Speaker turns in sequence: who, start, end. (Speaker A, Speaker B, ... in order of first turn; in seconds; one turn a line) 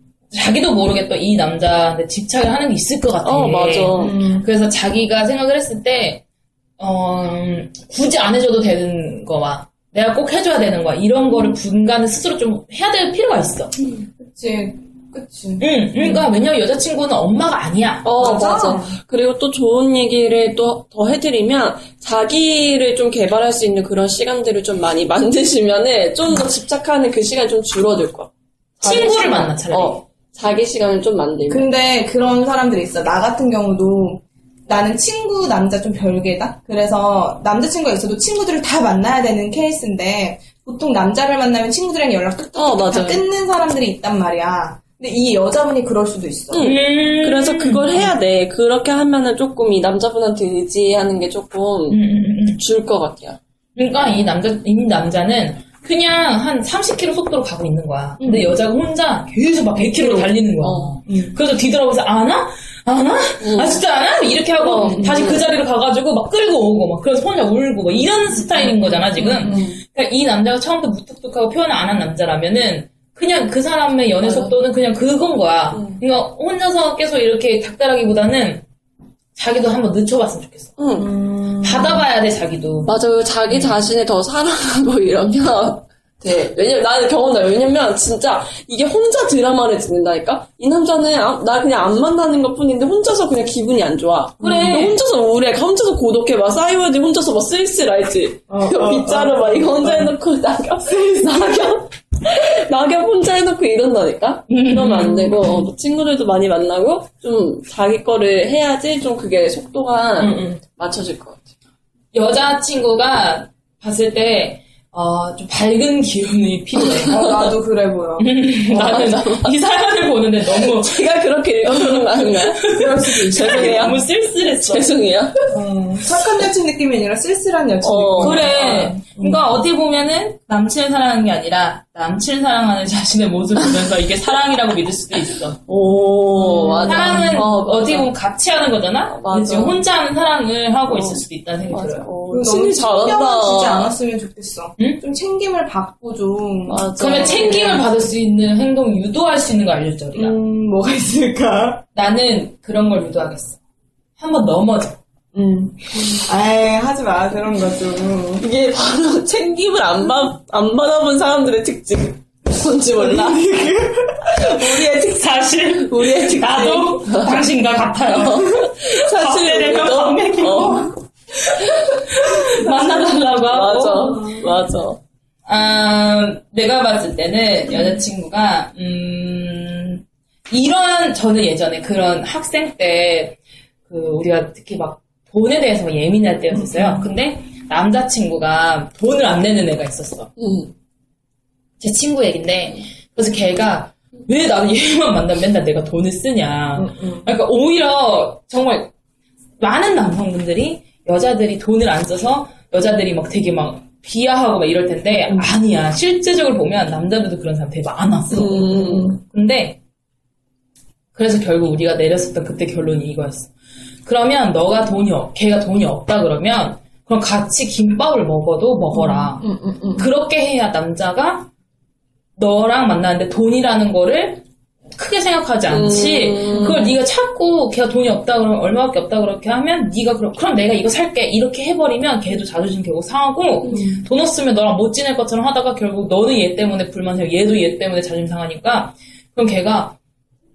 Speaker A: 0.3-6.2
Speaker B: 3.2-4.2
Speaker C: 4.0-4.5
Speaker A: 6.8-13.7
Speaker C: 14.2-16.2
Speaker A: 15.6-18.1
Speaker B: 18.0-31.7
Speaker C: 18.2-18.9
Speaker A: 28.8-30.0
Speaker C: 31.5-46.7
Speaker B: 42.5-43.2
Speaker B: 46.5-52.0
Speaker A: 46.6-48.1
Speaker A: 51.9-52.6
Speaker B: 52.5-53.4
Speaker A: 53.8-78.6
Speaker C: 58.2-58.6
Speaker B: 60.0-61.0
Speaker C: 61.1-61.4
Speaker B: 63.4-63.8
Speaker B: 64.6-65.4
Speaker C: 64.8-65.3
Speaker C: 68.4-69.7
Speaker B: 69.4-69.8
Speaker B: 74.2-74.5
Speaker B: 75.7-76.0
Speaker A: 79.3-80.7
Speaker B: 80.8-81.1
Speaker C: 81.0-82.0
Speaker A: 81.6-82.9
Speaker B: 82.8-111.4
Speaker A: 83.5-83.8
Speaker C: 94.4-94.9
Speaker A: 94.4-95.0
Speaker C: 98.5-100.1
Speaker C: 100.9-101.7
Speaker A: 104.5-105.6
Speaker A: 110.2-110.6
Speaker A: 112.1-117.2
Speaker C: 117.0-118.2
Speaker A: 118.2-121.0
Speaker B: 118.7-119.5
Speaker B: 120.5-125.5
Speaker A: 121.7-124.9
Speaker C: 122.7-124.0
Speaker C: 125.5-129.4
Speaker B: 127.8-128.5
Speaker A: 128.2-135.6
Speaker B: 133.7-134.0
Speaker B: 135.7-138.1
Speaker C: 135.9-137.4
Speaker A: 136.9-142.1
Speaker B: 139.1-139.8
Speaker B: 140.9-143.9
Speaker C: 142.3-147.8
Speaker B: 146.7-147.8
Speaker A: 147.0-150.3
Speaker C: 150.1-151.8
Speaker A: 151.9-153.6
Speaker A: 154.2-155.0
Speaker C: 155.3-158.4
Speaker B: 158.4-163.5
Speaker C: 163.0-164.9
Speaker A: 164.6-170.9
Speaker B: 165.8-167.4
Speaker B: 168.1-170.9
Speaker A: 171.4-174.3
Speaker B: 172.6-175.0
Speaker C: 174.1-174.5
Speaker A: 175.4-183.4
Speaker A: 183.9-190.3
Speaker C: 186.5-187.1
Speaker B: 190.4-190.7
Speaker A: 191.8-198.9
Speaker C: 196.8-197.3
Speaker A: 199.6-209.8
Speaker B: 208.3-209.2
Speaker C: 208.6-209.2
Speaker A: 211.1-213.5
Speaker A: 214.1-219.4
Speaker C: 218.9-220.1
Speaker A: 220.0-221.5
Speaker A: 222.4-224.4
Speaker A: 224.9-239.9
Speaker B: 225.7-226.9
Speaker C: 226.5-226.8
Speaker C: 233.7-234.0